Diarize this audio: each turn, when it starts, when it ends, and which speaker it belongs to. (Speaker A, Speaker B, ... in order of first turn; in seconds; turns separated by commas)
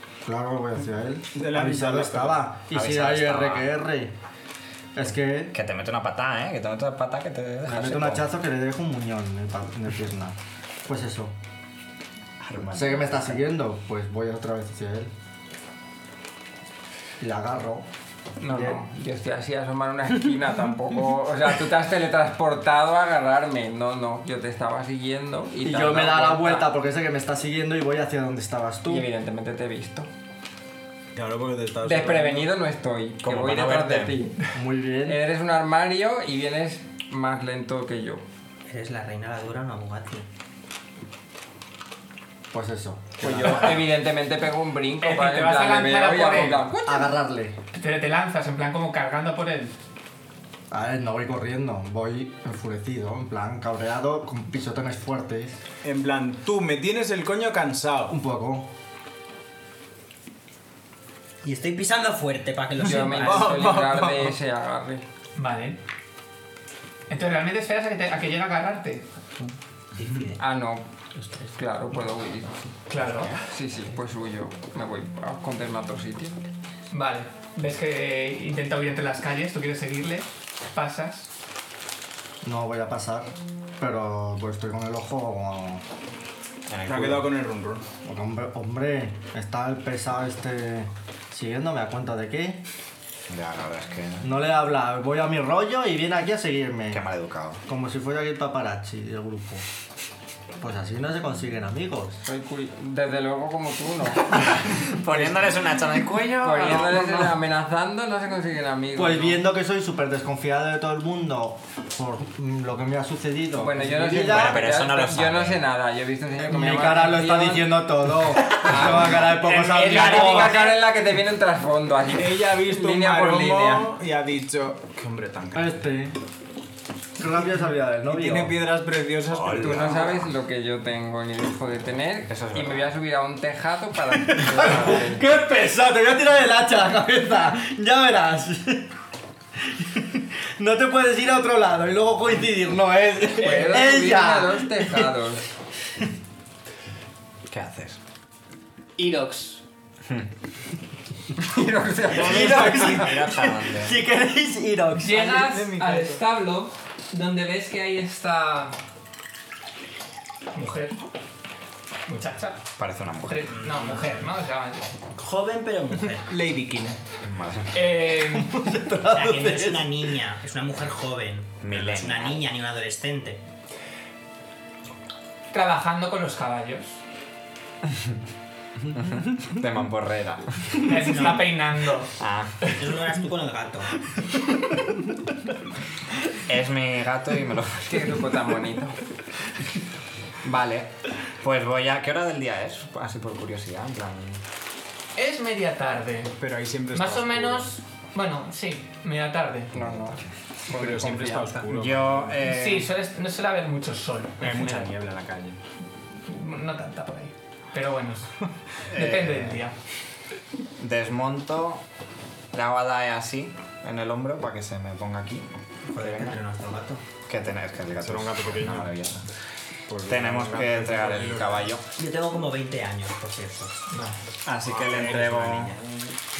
Speaker A: 0.2-4.1, Speaker B: 1.3-2.5, Speaker C: 2.7-3.7, Speaker A: 4.9-5.5, Speaker C: 5.5-8.3, Speaker A: 7.6-11.3, Speaker C: 12.4-13.4, Speaker A: 12.7-15.1, Speaker A: 17.2-17.9, Speaker D: 18.4-26.7, Speaker A: 18.4-18.8, Speaker A: 25.6-29.1, Speaker D: 28.9-30.1, Speaker B: 31.1-32.5, Speaker D: 31.8-34.4, Speaker C: 33.2-34.1, Speaker A: 34.5-35.2, Speaker D: 35.0-38.2, Speaker E: 38.7-40.3, Speaker A: 42.5-43.8, Speaker D: 43.2-47.2, Speaker F: 45.0-46.7, Speaker A: 46.9-47.5, Speaker F: 47.7-49.8, Speaker A: 50.7-55.6, Speaker B: 55.8-58.1, Speaker A: 58.1-58.7, Speaker E: 61.4-63.5, Speaker D: 62.8-65.0, Speaker B: 62.9-64.4, Speaker F: 65.4-65.8, Speaker F: 67.1-69.1, Speaker E: 70.0-70.4, Speaker D: 70.4-70.9, Speaker D: 71.5-72.8, Speaker F: 72.9-73.3, Speaker C: 73.0-73.4, Speaker D: 73.4-76.4, Speaker F: 76.9-81.3, Speaker A: 82.4-85.8, Speaker C: 86.7-87.3, Speaker B: 86.8-87.9, Speaker A: 88.0-92.6, Speaker C: 93.3-94.3, Speaker A: 94.2-97.1, Speaker C: 96.9-97.6, Speaker A: 97.7-99.6, Speaker A: 100.6-102.2, Speaker D: 102.3-104.9, Speaker C: 104.8-107.3, Speaker D: 106.4-109.4, Speaker A: 108.9-114.7, Speaker D: 113.6-123.9, Speaker C: 114.2-115.6, Speaker A: 116.4-120.6, Speaker F: 119.5-120.6, Speaker B: 122.1-125.8, Speaker A: 125.5-126.2, Speaker A: 127.2-128.6, Speaker B: 128.1-130.2, Speaker C: 129.3-130.3, Speaker D: 129.6-135.2, Speaker C: 132.3-132.9, Speaker A: 134.4-138.9, Speaker A: 139.6-145.2, Speaker D: 143.3-145.5, Speaker C: 147.5-148.0, Speaker F: 149.0-149.6, Speaker D: 151.4-153.1, Speaker A: 152.1-155.5, Speaker C: 152.1-154.0, Speaker F: 155.0-158.8, Speaker B: 155.2-156.2, Speaker F: 160.5-161.0, Speaker F: 162.1-162.6, Speaker C: 162.8-163.6, Speaker F: 163.2-164.9, Speaker E: 163.6-164.2, Speaker E: 165.2-166.3, Speaker B: 166.3-167.0, Speaker C: 167.2-167.9, Speaker F: 167.7-168.7, Speaker A: 168.3-170.1, Speaker E: 169.1-173.4, Speaker C: 171.6-172.4, Speaker F: 175.5-177.0, Speaker C: 177.9-178.2, Speaker C: 178.9-181.3, Speaker F: 180.8-182.1, Speaker C: 182.2-182.8, Speaker E: 182.8-183.9, Speaker C: 186.5-188.2, Speaker D: 187.9-189.0, Speaker C: 190.4-194.4, Speaker F: 195.2-196.4, Speaker B: 196.4-197.7, Speaker F: 196.9-199.8, Speaker D: 199.7-201.7, Speaker C: 199.8-200.2, Speaker B: 200.7-202.4, Speaker C: 201.7-202.9, Speaker F: 202.4-204.9, Speaker B: 204.4-205.6, Speaker F: 206.2-208.4, Speaker F: 208.9-209.8, Speaker C: 208.9-209.6, Speaker C: 210.8-211.8, Speaker C: 212.5-216.4, Speaker E: 215.9-217.0, Speaker C: 217.3-219.2, Speaker B: 218.0-219.1, Speaker B: 219.9-221.7, Speaker C: 220.1-221.8, Speaker E: 221.9-223.8, Speaker C: 224.5-225.8, Speaker B: 224.5-226.1